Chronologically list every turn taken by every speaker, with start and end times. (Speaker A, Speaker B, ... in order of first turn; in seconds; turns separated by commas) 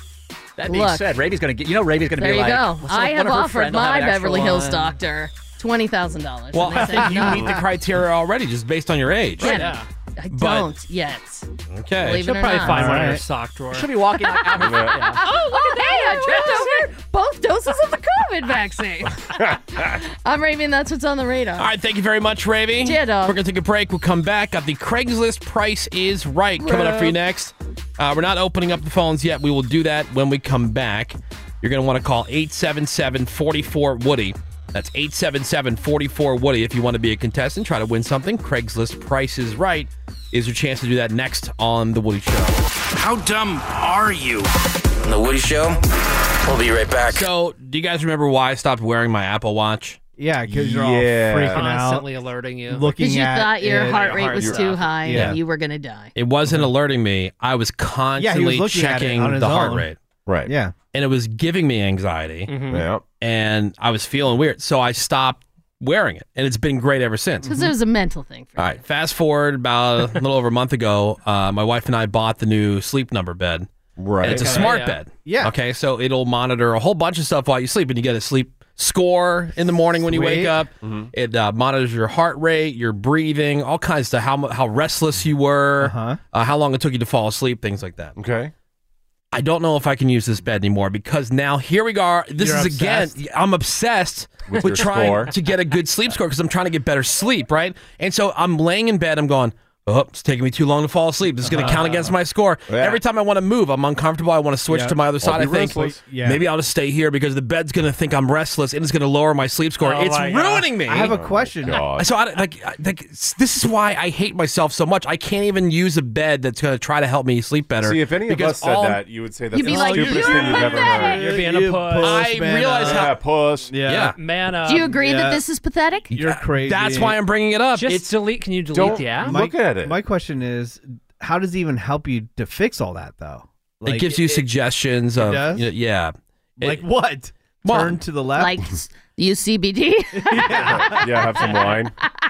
Speaker A: 0.6-4.9, Speaker B: 0.7-1.2, Speaker B: 2.2-7.6, Speaker C: 6.5-9.7, Speaker B: 9.4-11.5, Speaker D: 9.4-9.9, Speaker C: 10.3-10.7, Speaker C: 11.7-12.3, Speaker B: 12.0-13.0, Speaker D: 12.1-14.4, Speaker E: 12.6-13.2, Speaker A: 13.7-15.2, Speaker F: 14.6-15.0, Speaker D: 15.2-16.9, Speaker B: 15.2-21.7, Speaker F: 19.3-19.9, Speaker C: 21.6-42.6, Speaker B: 22.8-23.4, Speaker B: 26.6-27.1, Speaker G: 43.0-44.5, Speaker G: 45.0-45.8, Speaker G: 46.4-47.3, Speaker C: 47.1-50.0, Speaker E: 50.2-55.4, Speaker F: 50.4-51.6, Speaker D: 51.5-53.0, Speaker B: 53.0-56.1, Speaker D: 53.7-55.2, Speaker C: 56.1-60.0, Speaker E: 58.2-59.9, Speaker F: 60.2-60.5, Speaker E: 60.5-60.7, Speaker C: 60.9-62.5, Speaker D: 62.5-62.9, Speaker F: 62.7-63.0, Speaker C: 63.2-67.5, Speaker B: 67.4-68.7, Speaker C: 68.6-73.7, Speaker F: 74.0-74.7, Speaker C: 74.2-88.2, Speaker D: 74.3-75.0, Speaker E: 75.2-75.5, Speaker E: 79.7-80.6, Speaker F: 80.8-81.1, Speaker E: 85.8-86.2, Speaker F: 88.2-88.5, Speaker C: 89.3-111.2, Speaker E: 92.4-93.2, Speaker F: 94.5-95.3, Speaker E: 101.4-102.0, Speaker D: 101.6-101.9, Speaker F: 102.7-103.0, Speaker E: 104.7-105.0, Speaker F: 105.2-106.0, Speaker E: 106.0-106.4, Speaker D: 109.8-110.8, Speaker E: 110.8-111.8, Speaker F: 111.0-112.1, Speaker C: 112.0-119.0, Speaker F: 117.8-121.2, Speaker B: 119.5-121.2, Speaker E: 119.6-123.2, Speaker D: 119.9-122.3, Speaker C: 122.0-123.2, Speaker F: 122.8-123.7, Speaker E: 123.7-124.2, Speaker C: 123.8-124.2, Speaker D: 124.2-125.0, Speaker B: 124.6-126.1, Speaker E: 124.9-125.4, Speaker E: 126.1-127.2, Speaker C: 126.2-128.1, Speaker D: 127.7-129.4, Speaker F: 128.7-130.0, Speaker E: 128.9-134.4, Speaker C: 133.8-136.8, Speaker E: 135.2-135.7, Speaker E: 136.6-138.6, Speaker C: 137.6-138.0, Speaker B: 138.3-141.2, Speaker E: 140.2-141.1, Speaker F: 140.4-141.9, Speaker D: 141.4-141.8